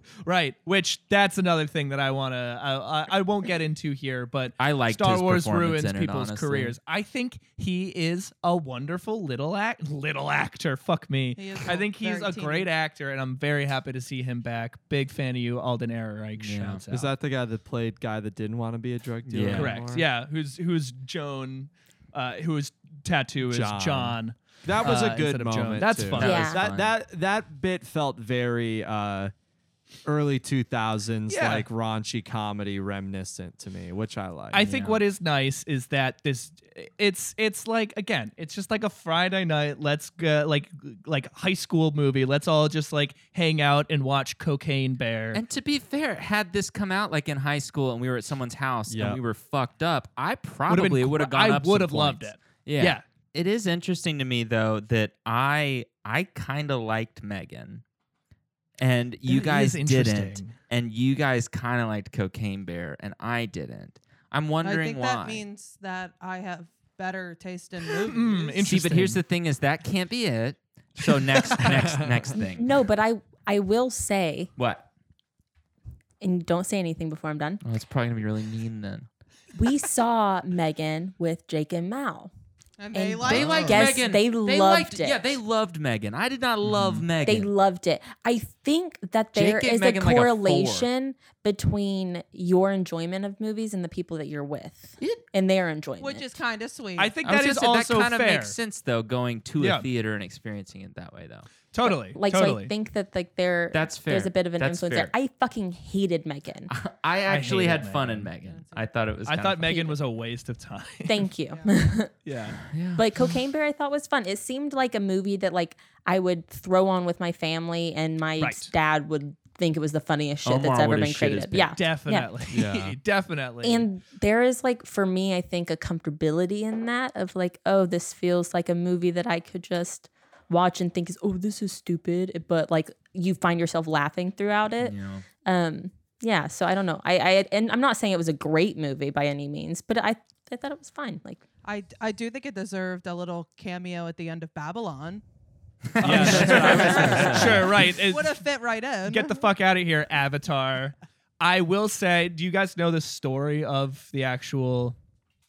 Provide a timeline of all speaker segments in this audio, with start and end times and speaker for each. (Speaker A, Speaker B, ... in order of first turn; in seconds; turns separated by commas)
Speaker A: 0.3-17.1, Speaker B: 4.6-6.8, Speaker C: 11.3-12.7, Speaker B: 16.4-16.8, Speaker D: 16.9-20.1, Speaker B: 19.3-19.8, Speaker A: 19.6-26.4, Speaker D: 23.4-29.3, Speaker B: 26.2-26.9, Speaker E: 26.2-26.6, Speaker D: 30.1-34.7, Speaker A: 31.3-31.7, Speaker A: 34.5-45.4, Speaker B: 34.7-35.0, Speaker B: 45.3-57.8, Speaker D: 48.9-49.2, Speaker A: 50.7-53.0, Speaker B: 58.8-65.4, Speaker A: 59.3-60.6, Speaker C: 64.6-68.6, Speaker A: 67.8-69.2, Speaker B: 68.6-72.8, Speaker D: 71.6-72.3, Speaker E: 72.4-74.5, Speaker B: 74.6-74.9, Speaker E: 76.2-77.6, Speaker B: 77.6-79.1, Speaker E: 79.5-82.3, Speaker C: 82.8-84.0, Speaker E: 82.9-85.2, Speaker B: 83.2-87.5, Speaker A: 83.4-83.7, Speaker A: 86.7-87.0, Speaker E: 87.2-96.4, Speaker B: 89.3-90.9, Speaker B: 95.0-95.2, Speaker C: 96.0-97.1, Speaker A: 97.0-98.6, Speaker B: 97.2-101.5, Speaker A: 99.6-99.9, Speaker A: 101.7-102.7, Speaker E: 101.8-106.7, Speaker B: 103.7-105.1, Speaker B: 106.7-109.9, Speaker A: 107.3-108.3, Speaker C: 108.4-108.9, Speaker A: 109.3-111.3, Speaker E: 111.1-112.2, Speaker A: 112.2-112.6, Speaker B: 112.7-113.0, Speaker E: 113.0-122.5, Speaker A: 118.4-118.7, Speaker B: 120.5-121.8, Speaker A: 121.8-123.9, Speaker D: 122.5-123.0, Speaker E: 123.6-141.4, Speaker B: 134.8-135.2, Speaker C: 141.6-145.2, Speaker B: 146.0-147.7, Speaker A: 146.0-148.4, Speaker D: 146.0-147.6, Speaker C: 146.1-149.5, Speaker E: 146.5-147.5, Speaker A: 149.1-155.0